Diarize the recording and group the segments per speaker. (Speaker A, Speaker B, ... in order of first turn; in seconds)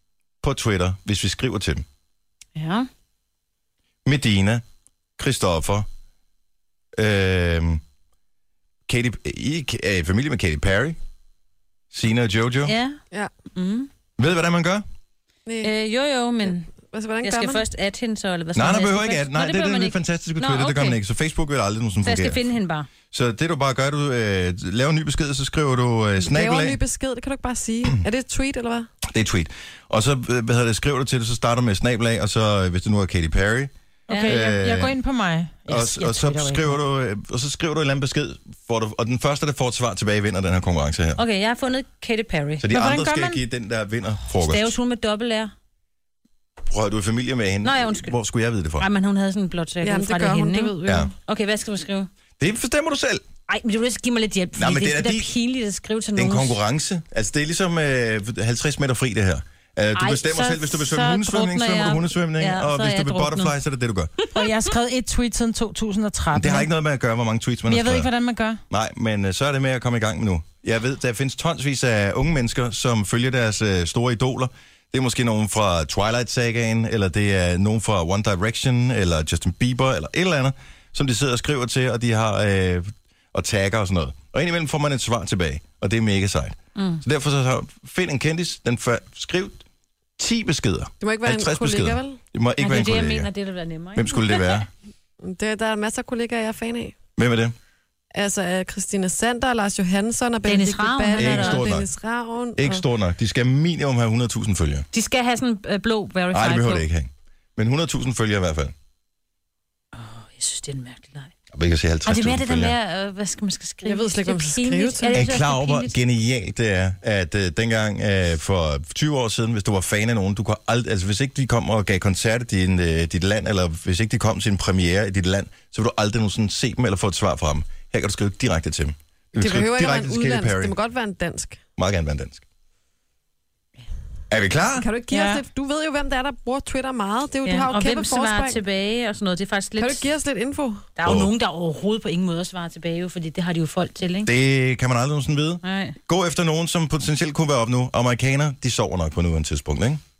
Speaker A: 0.4-1.8, 4.0-4.6, 5.2-5.9, 7.0-7.8, 8.9-11.0, 11.9-12.7, 14.2-14.8, 18.5-22.4, 23.1-26.8, 29.0-35.0, 35.7-41.2, 42.6-44.8, 46.7-48.9, 50.9-51.1, 52.4-53.2, 54.5-55.3, 56.1-64.1, 66.3-68.1, 68.7-89.6, 90.2-93.3, 93.9-94.7, 97.2-97.5, 101.1-101.9, 102.6-104.9, 106.3-108.7, 111.5-112.7, 115.1-130.8, 131.8-132.4, 134.3-134.9, 141.0-141.3, 144.2-150.0
Speaker B: 2.5-2.9, 12.7-13.0, 13.5-13.9, 15.6-16.7, 17.2-21.0, 22.0-22.9, 34.1-34.4, 41.2-42.6, 44.4-45.5, 47.6-48.1, 48.8-52.1, 53.5-56.6, 59.9-63.5, 64.2-64.5, 86.8-87.0, 92.6-94.6, 100.5-101.7, 104.9-106.9, 109.9-111.3, 112.0-115.9, 137.4-140.1, 141.0-144.3, 145.6-145.9
Speaker C: 15.4-15.7, 16.5-17.6, 26.2-28.9, 49.8-51.1, 91.0-92.2, 95.2-96.9, 98.1-102.8, 113.8-115.2, 129.4-131.6, 134.8-138.6, 139.8-140.9
Speaker D: 34.1-36.8, 42.7-43.4, 64.3-66.7, 67.7-68.6, 135.1-135.4